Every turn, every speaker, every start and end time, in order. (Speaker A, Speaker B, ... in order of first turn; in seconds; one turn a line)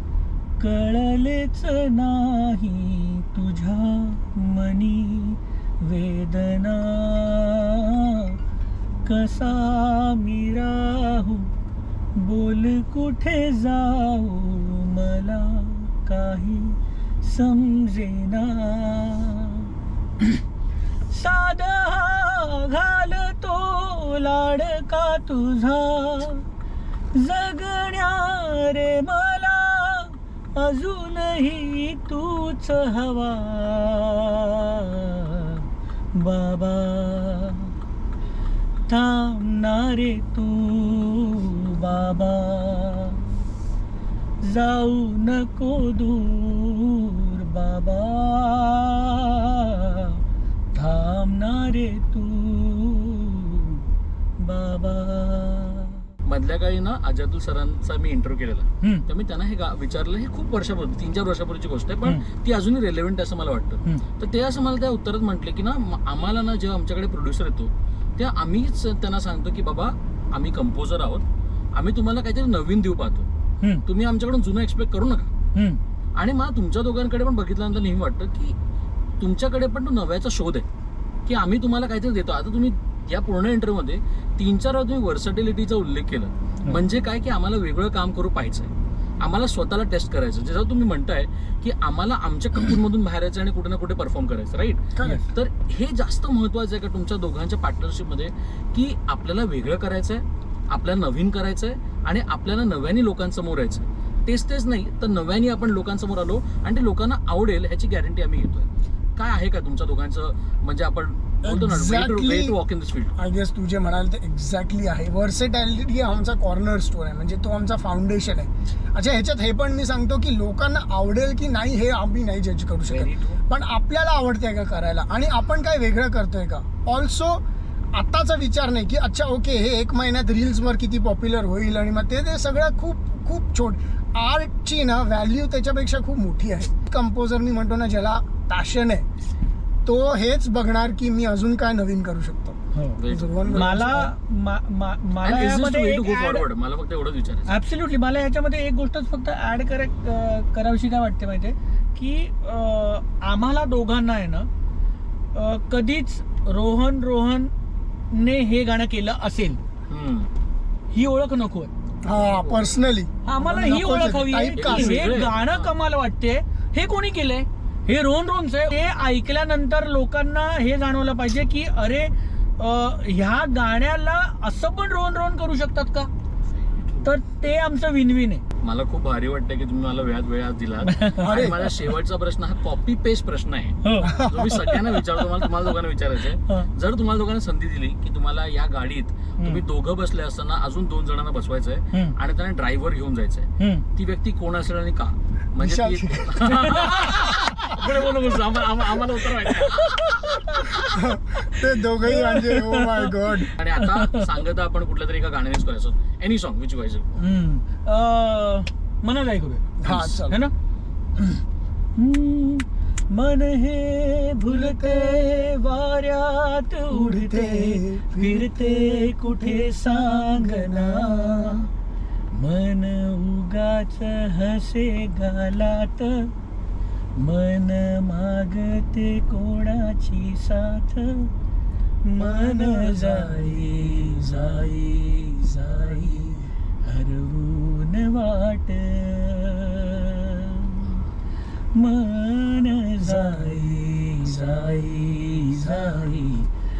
Speaker A: 0.6-8.3
Speaker A: 9.0-11.5
Speaker A: 12.2-19.7
Speaker A: 21.1-26.4
Speaker A: 27.1-35.6
Speaker A: 36.1-37.7
Speaker A: 38.9-43.2
Speaker A: 44.4-50.2
Speaker A: 50.7-53.8
Speaker A: 54.4-56.0
Speaker B: 56.2-73.3
Speaker B: 73.8-75.3
Speaker A: 75.5-75.8
Speaker B: 76.2-78.5
Speaker B: 79.2-80.6
Speaker B: 81.3-113.1
Speaker C: 111.4-112.5
Speaker C: 113.2-127.4
Speaker B: 122.9-123.4
Speaker C: 127.9-139.1
Speaker C: 139.8-144.1
Speaker A: 142.7-146.5
Speaker B: 143.0-144.0
Speaker B: 145.2-147.5
Speaker A: 147.5-154.5
Speaker A: 155.3-157.5
Speaker A: 158.1-159.6
Speaker B: 159.9-160.3
Speaker A: 160.9-161.7
Speaker C: 162.0-165.1
Speaker B: 162.1-162.8
Speaker A: 163.2-176.1
Speaker B: 164.6-165.7
Speaker B: 176.5-177.1
Speaker A: 177.0-178.4
Speaker B: 178.6-201.1
Speaker A: 180.8-181.7
Speaker C: 181.2-181.6
Speaker A: 183.8-185.5
Speaker C: 184.0-184.7
Speaker A: 193.6-193.8
Speaker C: 195.6-196.5
Speaker A: 196.4-197.3
Speaker A: 199.3-200.8
Speaker C: 200.9-203.5
Speaker A: 201.5-204.4
Speaker B: 203.6-207.2
Speaker A: 207.2-210.5
Speaker C: 209.8-210.4
Speaker A: 211.9-221.7
Speaker C: 216.9-219.2
Speaker A: 222.3-226.3
Speaker A: 227.2-231.3
Speaker A: 232.1-240.8
Speaker A: 241.8-246.5